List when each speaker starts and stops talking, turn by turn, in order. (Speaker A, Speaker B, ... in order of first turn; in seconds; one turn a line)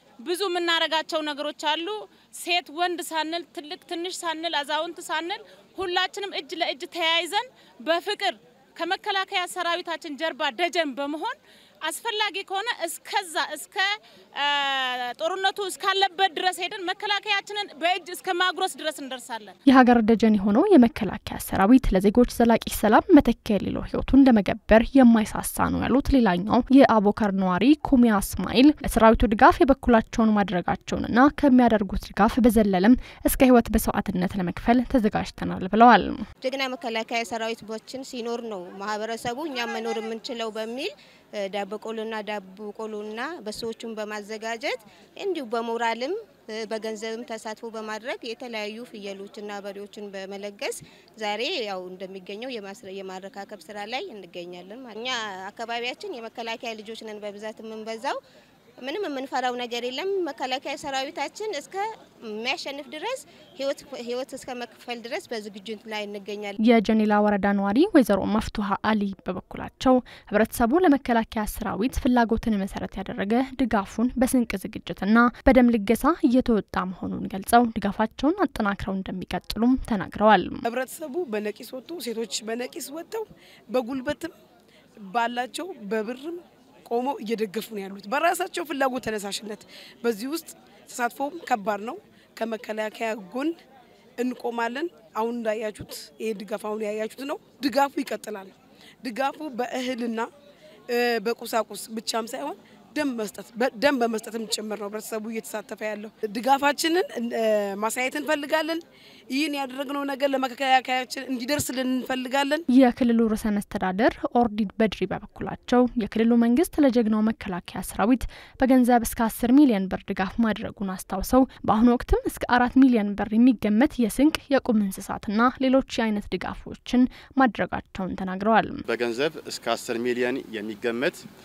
Speaker A: 0.2-13.8
Speaker A: 14.4-19.5
Speaker B: 19.6-36.3
Speaker C: 36.4-40.9
Speaker C: 41.4-58.1
Speaker C: 58.8-66.6
Speaker B: 66.6-80.6
Speaker D: 80.7-84.3
Speaker D: 85.0-93.6
Speaker D: 94.2-100.3
Speaker D: 100.9-112.6
Speaker B: 112.7-128.8
Speaker E: 128.8-131.2